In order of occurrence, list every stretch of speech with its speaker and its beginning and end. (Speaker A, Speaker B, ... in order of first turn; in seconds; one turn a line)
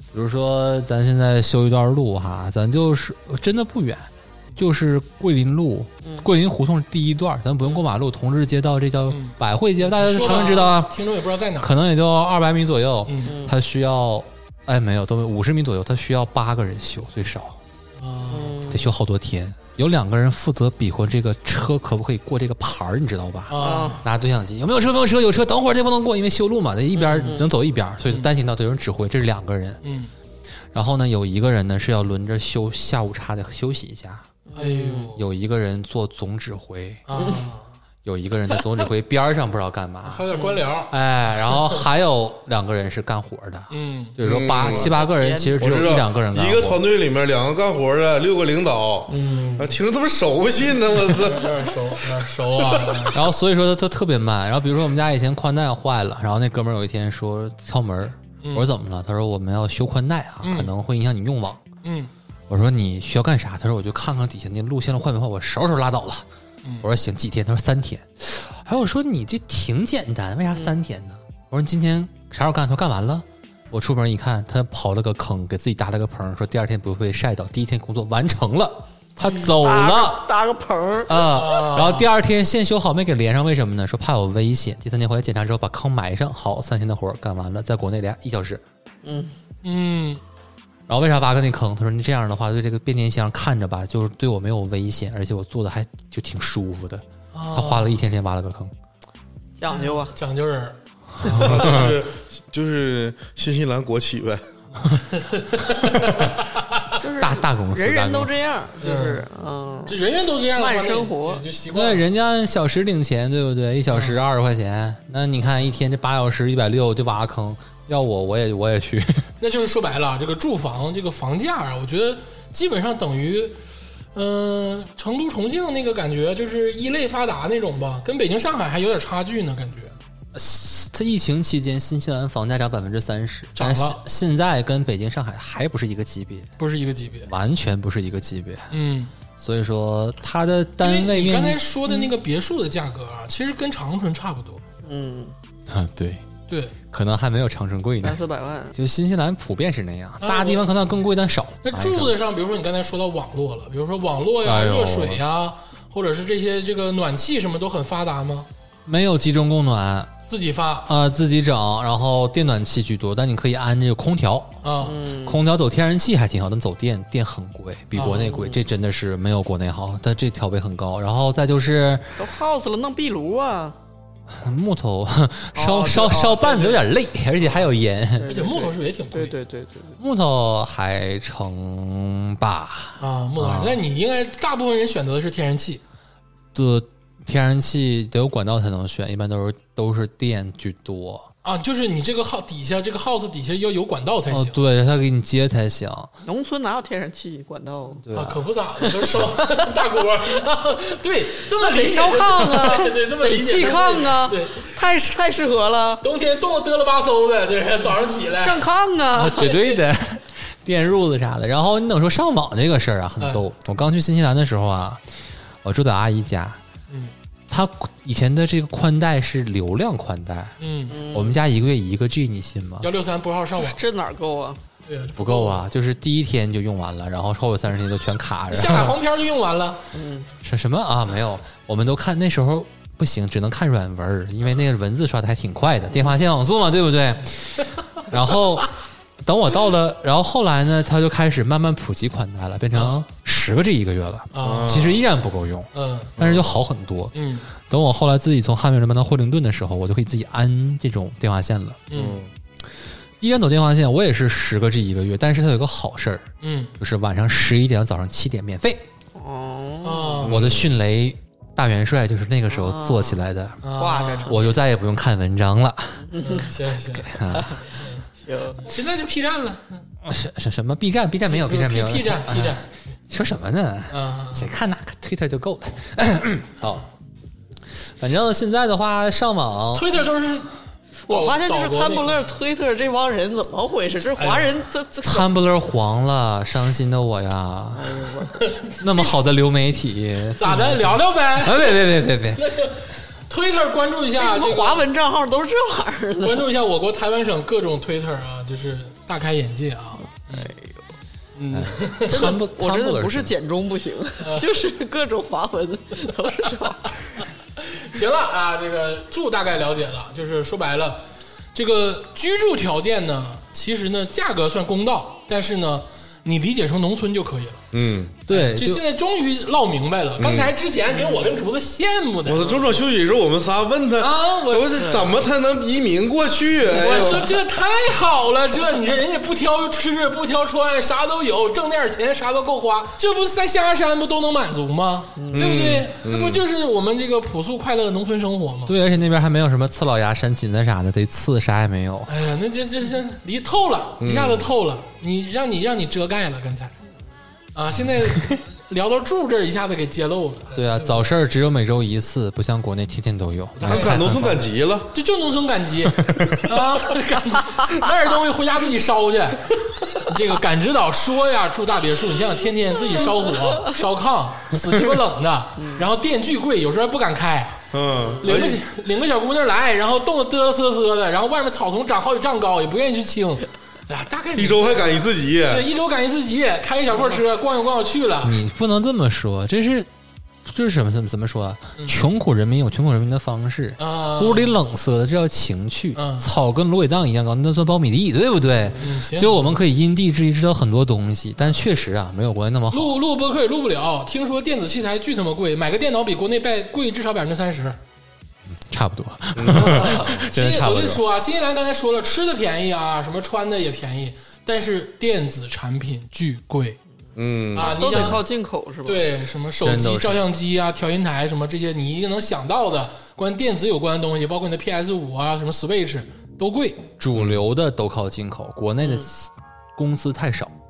Speaker A: 0.1-11.0
Speaker B: 9.1-9.3
Speaker B: 9.8-11.7
Speaker A: 11.6-17.6
Speaker B: 13.1-13.4
Speaker C: 13.2-13.5
Speaker B: 18.0-18.6
Speaker C: 18.3-18.9
Speaker A: 18.7-29.8
Speaker B: 23.5-24.0
Speaker C: 23.6-24.0
Speaker B: 27.0-27.4
Speaker C: 27.1-27.5
Speaker B: 29.8-30.1
Speaker A: 30.7-34.3
Speaker C: 34.5-35.1
Speaker B: 34.5-35.2
Speaker A: 35.1-37.0
Speaker B: 37.1-37.7
Speaker C: 37.1-37.4
Speaker A: 38.0-40.3
Speaker B: 40.0-41.0
Speaker A: 40.9-46.8
Speaker B: 43.7-44.2
Speaker D: 44.2-44.9
Speaker C: 44.6-45.8
Speaker D: 45.6-51.7
Speaker B: 49.1-49.8
Speaker B: 50.9-53.3
Speaker A: 53.1-61.6
Speaker B: 58.4-58.7
Speaker B: 60.4-60.7
Speaker B: 61.8-62.1
Speaker A: 62.5-66.2
Speaker A: 66.8-80.2
Speaker C: 79.2-81.2
Speaker A: 81.1-88.6
Speaker B: 81.2-82.1
Speaker C: 89.0-89.3
Speaker B: 89.6-90.2
Speaker A: 90.9-98.7
Speaker B: 97.3-97.9
Speaker C: 99.6-100.1
Speaker B: 99.7-101.8
Speaker D: 101.2-104.5
Speaker A: 101.3-101.7
Speaker B: 104.8-106.9
Speaker C: 106.9-110.0
Speaker A: 107.1-108.3
Speaker B: 108.8-109.2
Speaker B: 109.9-112.0
Speaker C: 110.5-111.4
Speaker A: 111.7-119.3
Speaker B: 113.9-114.2
Speaker B: 119.4-123.6
Speaker B: 124.1-129.9
Speaker A: 130.3-136.5
Speaker B: 133.6-134.0
Speaker B: 136.6-137.3
Speaker A: 137.2-138.7
Speaker B: 138.7-139.1
Speaker A: 139.4-141.6
Speaker B: 140.8-144.6
Speaker C: 144.8-145.3
Speaker A: 145.7-146.2
Speaker B: 146.5-146.8
Speaker A: 146.9-148.2
Speaker C: 148.0-148.8
Speaker A: 148.7-152.1
Speaker B: 150.2-150.7
Speaker B: 151.6-158.5
Speaker A: 154.4-155.2
Speaker A: 158.8-160.1
Speaker B: 160.3-160.9
Speaker A: 160.8-164.6
Speaker B: 164.6-165.0
Speaker C: 164.8-165.4
Speaker A: 165.2-172.2
Speaker B: 167.9-168.3
Speaker C: 168.1-168.6
Speaker C: 172.2-173.8
Speaker A: 174.3-178.3
Speaker C: 175.5-176.8
Speaker C: 178.2-180.0
Speaker B: 178.2-179.3
Speaker A: 180.0-183.8
Speaker B: 183.0-185.8
Speaker A: 186.5-191.3
Speaker B: 191.4-194.6
Speaker A: 194.3-196.1
Speaker C: 196.2-198.0
Speaker A: 198.0-198.4
Speaker B: 198.1-204.8
Speaker C: 198.8-199.3
Speaker C: 201.6-206.0
Speaker B: 206.0-208.6
Speaker C: 208.3-209.5
Speaker A: 209.1-215.0
Speaker B: 209.4-209.8
Speaker B: 213.2-213.4
Speaker A: 215.6-216.6
Speaker A: 217.5-220.5
Speaker B: 220.6-221.1
Speaker C: 220.9-221.4
Speaker A: 221.1-222.9
Speaker B: 222.8-223.8
Speaker C: 223.6-224.6
Speaker B: 224.9-225.6
Speaker A: 225.2-229.0
Speaker B: 228.5-229.8
Speaker C: 229.9-230.3
Speaker A: 230.4-238.7
Speaker A: 239.2-251.8
Speaker B: 244.3-245.0
Speaker D: 244.4-245.0
Speaker B: 245.7-246.1
Speaker D: 246.2-246.6
Speaker B: 247.1-247.5
Speaker B: 251.9-252.2
Speaker D: 251.9-252.3
Speaker A: 253.2-256.3
Speaker B: 256.4-256.7
Speaker A: 256.8-258.8
Speaker C: 259.1-260.3
Speaker B: 259.8-260.4
Speaker D: 260.2-260.7
Speaker A: 260.3-263.7
Speaker C: 262.5-263.2
Speaker B: 263.6-264.4
Speaker C: 263.7-264.5
Speaker A: 264.2-266.1
Speaker C: 266.1-266.5
Speaker B: 266.2-268.1
Speaker A: 266.9-267.6
Speaker C: 268.2-268.6
Speaker B: 268.6-269.8
Speaker A: 270.0-276.9
Speaker B: 271.3-272.7
Speaker B: 273.9-274.5
Speaker A: 277.8-279.9
Speaker B: 279.7-280.5
Speaker C: 281.1-285.3
Speaker B: 281.1-282.4
Speaker B: 284.2-284.6
Speaker A: 285.0-288.1
Speaker C: 287.7-288.4
Speaker B: 288.4-289.0
Speaker A: 288.8-292.4
Speaker B: 290.4-294.9
Speaker C: 294.2-296.4
Speaker B: 296.2-300.5
Speaker C: 300.3-300.8
Speaker B: 301.4-302.4
Speaker A: 301.5-303.3
Speaker C: 302.1-306.9
Speaker B: 304.2-304.7
Speaker B: 307.6-311.0
Speaker B: 311.5-317.6
Speaker D: 317.7-318.1
Speaker A: 318.3-318.8
Speaker B: 318.3-322.7
Speaker D: 320.2-320.5
Speaker C: 321.0-321.3
Speaker D: 322.2-327.4
Speaker B: 324.0-325.1
Speaker B: 326.6-338.8
Speaker C: 335.1-335.5
Speaker D: 335.3-336.4
Speaker A: 338.7-342.1
Speaker B: 342.1-346.7
Speaker D: 344.0-344.4
Speaker B: 347.5-351.0
Speaker A: 350.5-354.4
Speaker B: 353.6-354.1
Speaker D: 353.6-354.9
Speaker B: 354.9-367.6
Speaker C: 365.6-365.9
Speaker D: 367.7-368.6
Speaker B: 368.2-378.4
Speaker D: 374.3-375.7
Speaker A: 378.2-379.9
Speaker A: 380.4-392.9
Speaker B: 381.8-382.0
Speaker B: 383.8-384.6
Speaker B: 385.9-386.3
Speaker B: 388.8-389.6
Speaker B: 392.7-397.8
Speaker A: 398.5-401.0
Speaker D: 399.4-400.0
Speaker B: 399.6-406.8
Speaker D: 407.1-408.2
Speaker B: 407.5-408.2
Speaker C: 407.6-409.1
Speaker B: 408.9-416.9
Speaker A: 409.6-410.2
Speaker A: 417.0-420.5
Speaker D: 417.1-417.4
Speaker C: 418.8-419.1